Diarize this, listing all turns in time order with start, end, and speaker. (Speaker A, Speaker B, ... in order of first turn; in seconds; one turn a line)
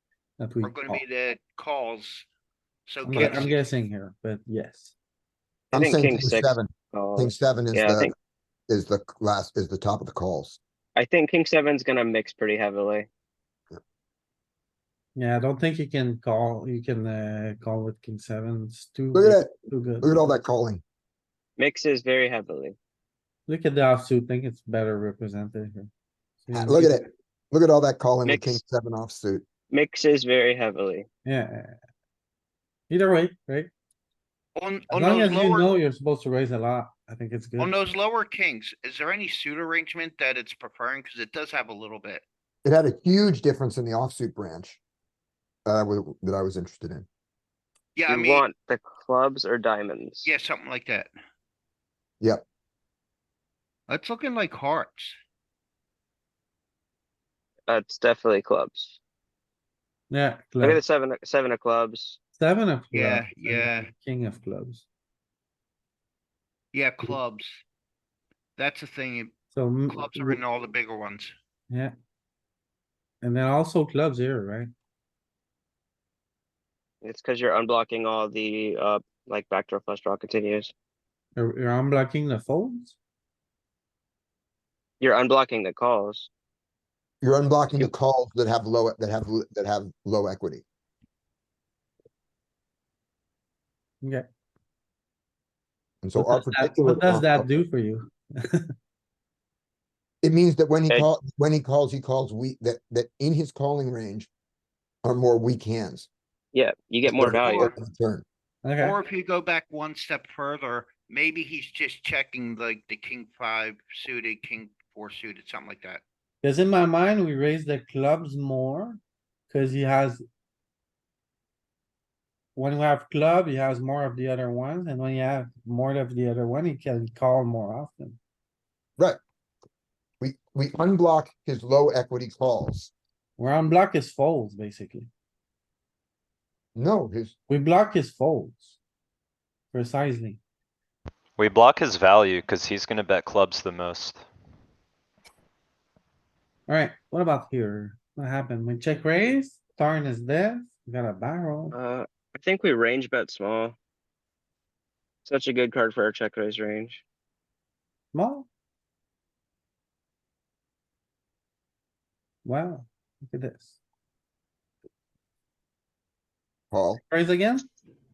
Speaker A: 0.4-1.0
Speaker B: 0.6-2.3
Speaker B: 2.9-3.7
Speaker A: 3.0-4.9
Speaker C: 3.1-3.4
Speaker D: 5.7-8.1
Speaker C: 5.7-8.1
Speaker C: 8.7-10.6
Speaker D: 11.0-13.1
Speaker A: 15.2-20.4
Speaker C: 19.1-20.8
Speaker D: 21.6-22.8
Speaker A: 23.5-25.9
Speaker A: 26.4-27.1
Speaker C: 26.5-29.4
Speaker D: 28.2-28.6
Speaker D: 29.7-31.1
Speaker A: 31.2-31.7
Speaker A: 32.9-33.7
Speaker B: 34.6-35.7
Speaker A: 34.9-37.7
Speaker B: 37.6-42.2
Speaker C: 42.6-44.8
Speaker C: 45.7-47.1
Speaker B: 48.0-48.5
Speaker D: 48.1-50.3
Speaker B: 50.2-51.1
Speaker B: 53.9-55.2
Speaker D: 57.7-59.0
Speaker A: 60.1-60.8
Speaker D: 60.6-62.2
Speaker A: 62.4-64.9
Speaker B: 62.9-63.9
Speaker B: 66.7-67.6
Speaker B: 68.6-69.3
Speaker A: 69.5-70.4
Speaker B: 69.9-71.3
Speaker A: 73.2-74.7
Speaker D: 77.0-80.7
Speaker A: 81.4-83.0
Speaker D: 85.0-86.3
Speaker C: 87.2-90.6
Speaker C: 96.0-97.5
Speaker A: 96.2-98.7
Speaker C: 100.2-104.3
Speaker C: 105.0-106.1
Speaker D: 106.5-107.7
Speaker C: 107.1-108.2
Speaker A: 108.6-109.0
Speaker B: 108.8-116.0
Speaker A: 116.4-120.2
Speaker A: 122.5-128.2
Speaker C: 130.2-132.9
Speaker A: 133.4-135.1
Speaker C: 136.8-137.4
Speaker A: 137.5-138.8
Speaker A: 139.7-140.4
Speaker E: 141.4-144.3
Speaker A: 146.7-151.8
Speaker D: 151.7-153.8
Speaker D: 155.2-157.0
Speaker A: 158.1-158.5
Speaker A: 162.4-163.8
Speaker C: 166.7-167.0
Speaker A: 167.1-167.7